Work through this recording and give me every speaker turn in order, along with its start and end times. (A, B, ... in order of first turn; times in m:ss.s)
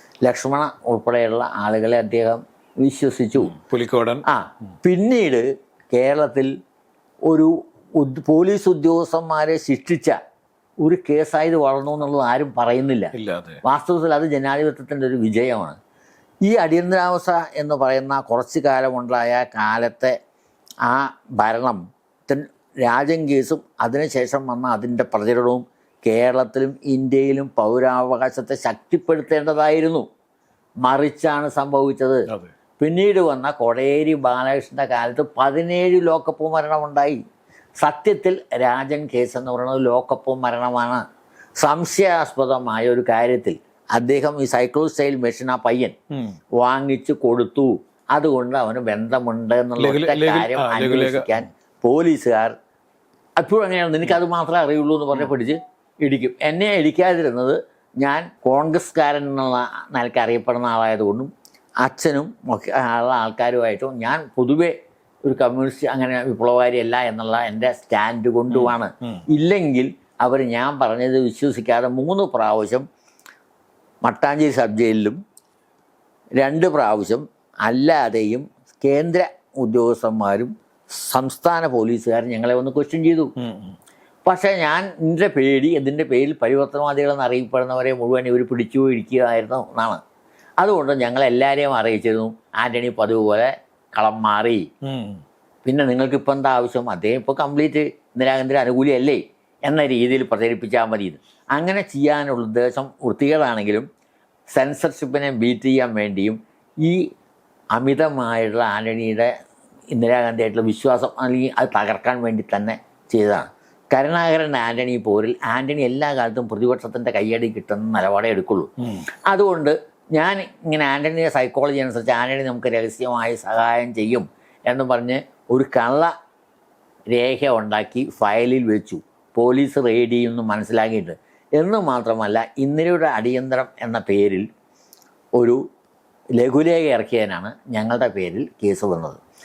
0:00.2-0:03.6 A
0:03.4-0:04.2 B
0:04.3-0:06.5 A
0:07.3-0:10.2 A
0:10.8-0:13.1 A
0:13.1-0:13.6 B
0:13.6-0:15.8 A
0:16.4-0:20.1 A
0:20.8-0:30.0 A
0:30.8-0:32.2 A
0:32.8-0:37.2 A
0:37.8-0:41.0 A
0:41.6-0:45.9 A
0:46.1-0:46.4 B
0:46.6-0:52.5 A
0:49.8-0:51.4 B
0:53.4-1:01.3 A
1:01.8-1:04.7 A
1:05.2-1:12.8 A
1:08.5-1:09.2 B
1:14.0-1:15.2 A
1:16.4-1:23.3 A
1:23.4-1:23.8 B
1:24.2-1:30.0 A
1:30.6-1:34.6 A
1:34.8-1:35.2 B
1:35.6-1:43.9 A
1:44.5-1:47.0 A
1:47.7-1:49.3 A
1:49.9-1:58.7 A
1:59.3-2:06.1 A
2:07.1-2:14.4 A
2:16.4-2:19.2 A